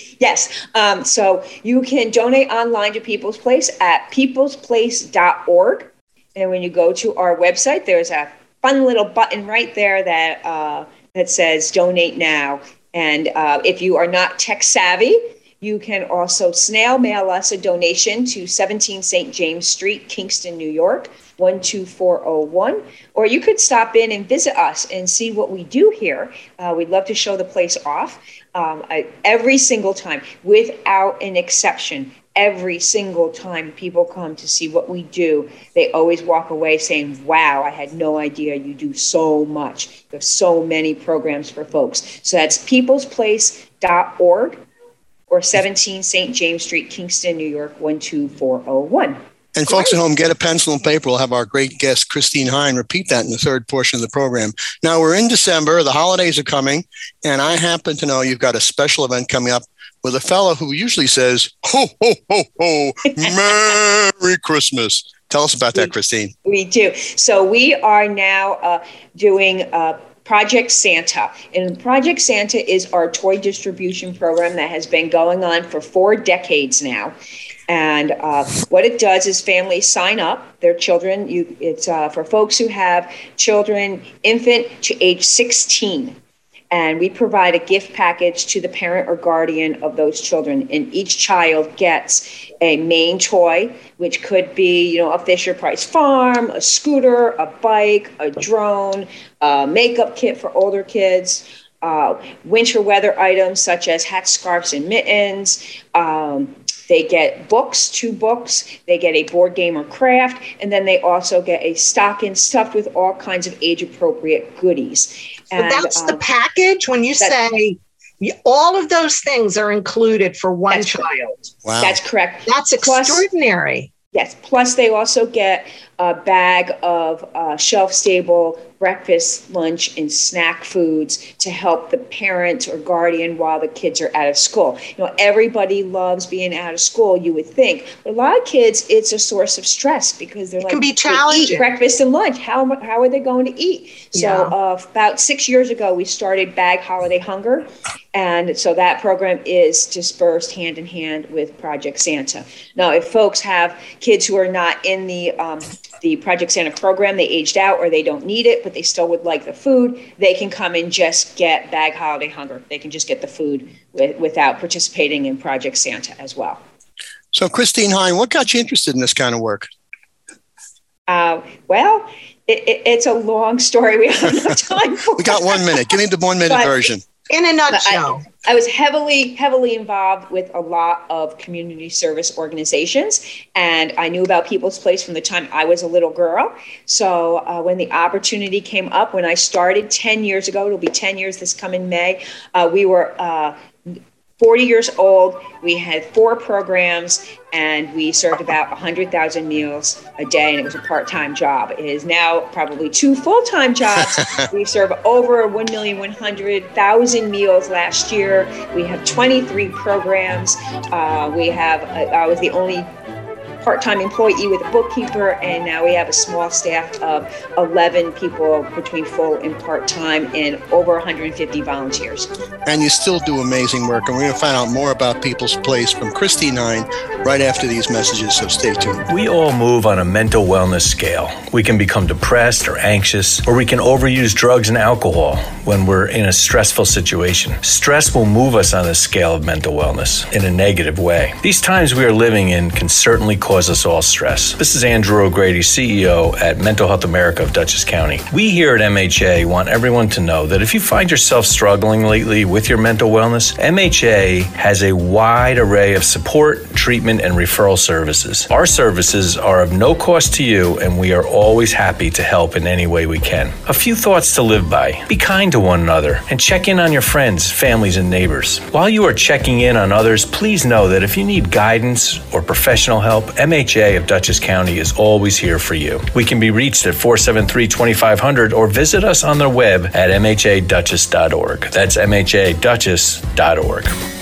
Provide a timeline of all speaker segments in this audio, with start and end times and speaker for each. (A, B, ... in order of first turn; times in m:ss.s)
0:00.2-0:44.6 A
0:45.3-0:50.0 A
0:49.6-1:06.3 B
1:06.4-1:17.2 A
1:17.7-1:26.2 A
1:26.7-1:56.2 A
1:55.5-2:01.1 C
2:00.7-2:03.3 A
2:01.6-2:02.0 B
2:02.5-2:03.9 C
2:04.1-2:46.6 A
2:20.7-2:21.7 C
2:24.1-2:24.5 C
2:47.3-2:49.7 B
2:51.1-2:55.9 A
2:55.2-2:57.0 B
2:56.5-2:56.8 A
2:57.3-2:58.2 C
2:57.7-3:13.6 A
3:14.4-3:32.9 A
3:33.6-3:42.3 A
3:42.7-3:49.0 B
3:49.1-4:43.9 D